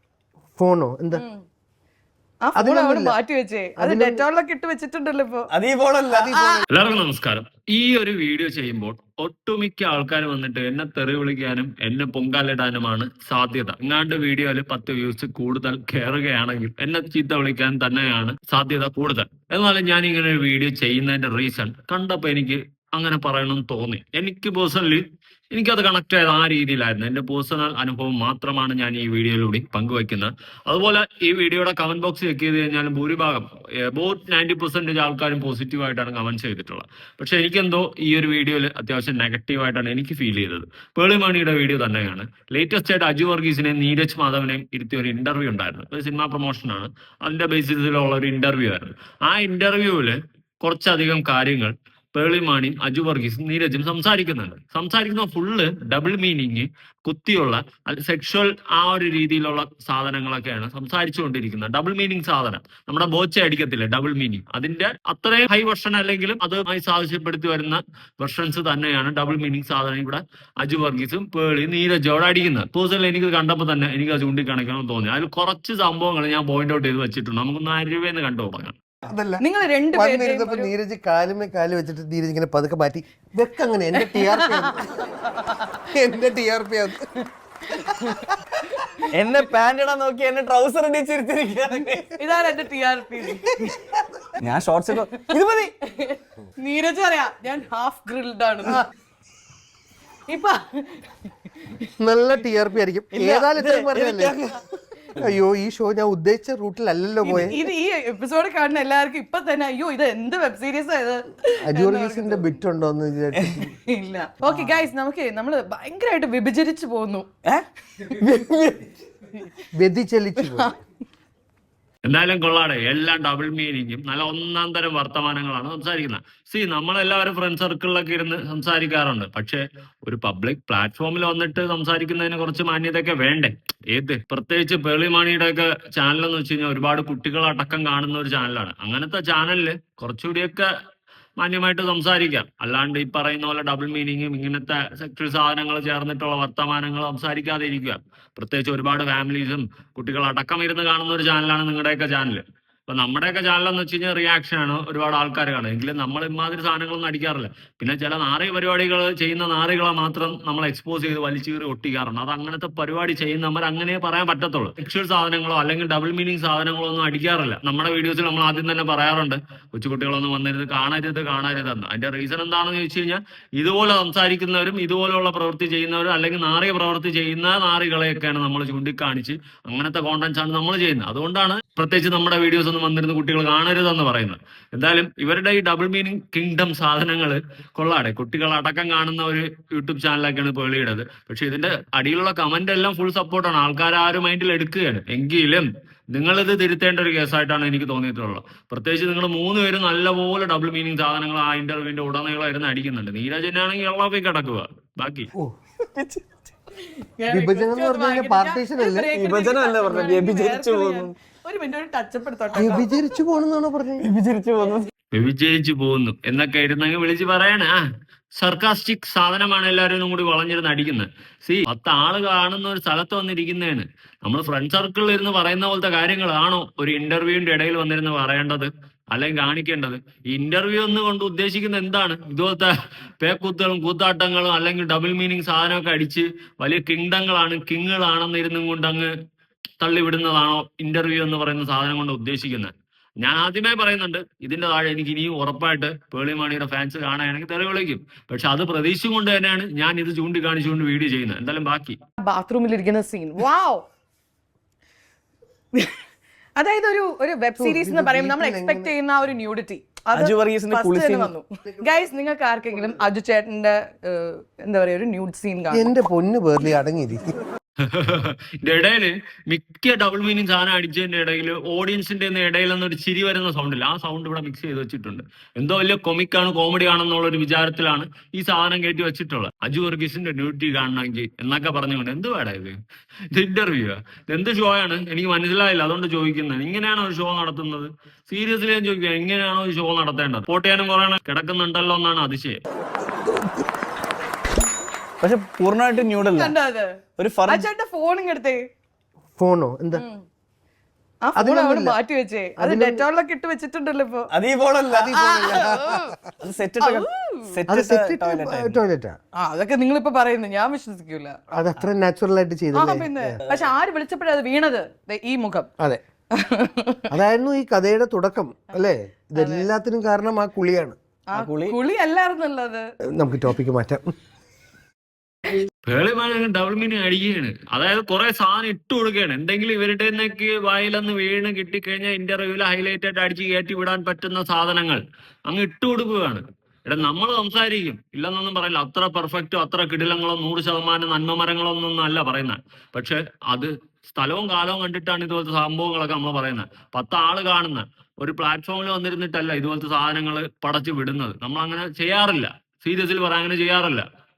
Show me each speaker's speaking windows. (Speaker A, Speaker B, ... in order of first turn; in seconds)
Speaker A: 0.6-1.2, 2.5-3.2, 3.8-4.2, 6.1-6.6, 79.0-84.9, 85.9-87.1, 102.0-104.4, 105.2-107.6, 111.6-113.7, 119.8-120.7, 207.3-209.1, 212.5-214.1, 257.6-258.9, 265.7-267.3, 299.4-300.0, 301.4-302.0, 302.6-303.1, 304.9-306.1, 307.7-309.1, 311.5-313.3, 317.1-320.9, 323.1-324.1
Speaker B: 1.1-1.4, 2.4-5.5, 6.3-6.6, 79.4-80.7, 83.9-84.8, 85.5-85.8, 87.8-89.0, 92.1-93.9, 95.8-98.8, 100.3-101.0, 107.2-112.5, 113.8-117.3, 207.0-213.0, 252.2-253.8, 256.6-265.9, 296.2-298.6, 299.9-300.2, 301.2-304.3, 305.1-306.1, 306.8-307.5, 309.4-311.4, 312.7-315.7, 316.3-317.0, 319.4-319.7, 321.3-322.9
Speaker C: 5.5-6.3, 89.1-92.2, 94.4-95.7, 103.1-105.2, 113.3-113.6, 114.5-114.8, 117.4-118.9, 205.8-206.2, 209.1-211.1, 214.0-214.9, 260.1-261.3, 295.2-296.5, 297.2-297.7, 304.3-305.1, 306.4-308.8, 321.3-321.8
Speaker D: 6.7-78.7, 122.0-140.7, 141.4-205.3, 215.1-217.8, 218.4-239.1, 239.8-252.0, 267.8-282.8, 283.3-292.6, 325.8-354.0